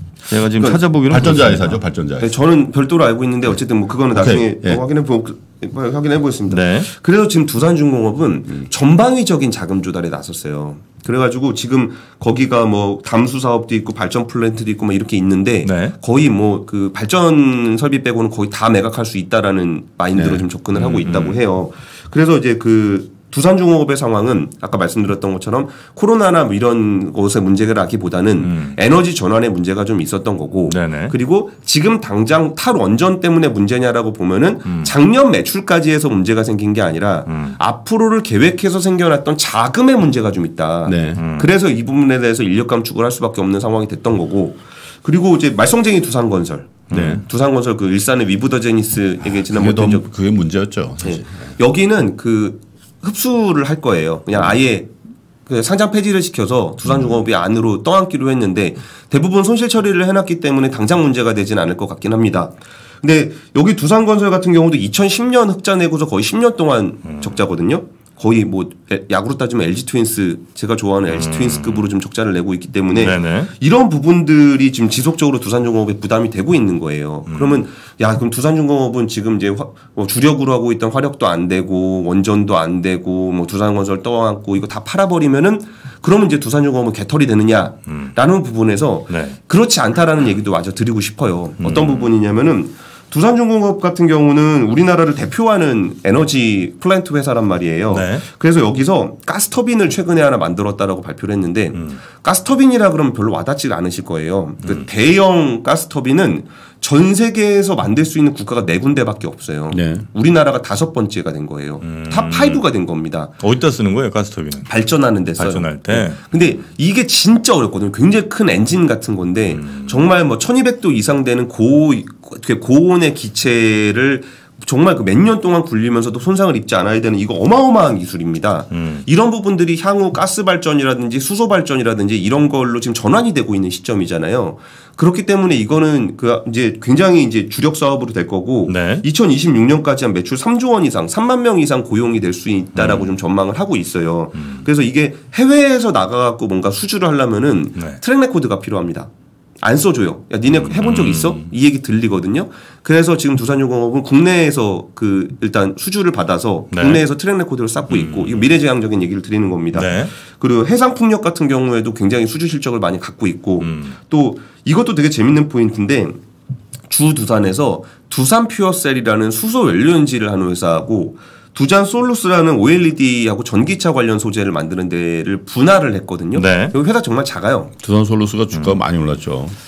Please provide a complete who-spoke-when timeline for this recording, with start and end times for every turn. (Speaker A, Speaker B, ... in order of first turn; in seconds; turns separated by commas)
Speaker A: 0.3-1.8, Speaker B: 1.1-2.3, Speaker C: 2.2-50.1, Speaker B: 4.1-4.8, Speaker A: 6.5-6.9, Speaker A: 15.6-15.9, Speaker B: 20.1-20.5, Speaker A: 20.7-21.4, Speaker A: 28.4-28.8, Speaker A: 30.7-31.1, Speaker A: 34.6-34.9, Speaker A: 37.3-37.5, Speaker B: 40.9-41.2, Speaker A: 41.2-41.5, Speaker A: 46.9-47.2, Speaker B: 46.9-47.2, Speaker B: 49.2-51.5, Speaker C: 51.0-54.9, Speaker C: 55.5-113.3, Speaker A: 67.0-67.4, Speaker A: 71.1-71.9, Speaker A: 72.9-73.5, Speaker A: 77.3-77.6, Speaker A: 87.9-88.1, Speaker A: 89.1-89.4, Speaker A: 91.6-92.1, Speaker A: 97.9-98.2, Speaker B: 109.7-110.1, Speaker A: 111.8-112.6, Speaker A: 113.4-114.7, Speaker C: 114.7-166.2, Speaker A: 115.4-116.3, Speaker A: 119.5-120.0, Speaker A: 128.7-129.0, Speaker A: 138.7-139.0, Speaker A: 142.7-143.1, Speaker A: 144.4-144.6, Speaker A: 150.5-151.5, Speaker A: 156.7-157.0, Speaker A: 157.9-158.5, Speaker A: 159.7-160.1, Speaker A: 163.6-163.9, Speaker C: 166.9-177.7, Speaker A: 176.3-176.7, Speaker B: 177.8-179.6, Speaker A: 178.5-178.8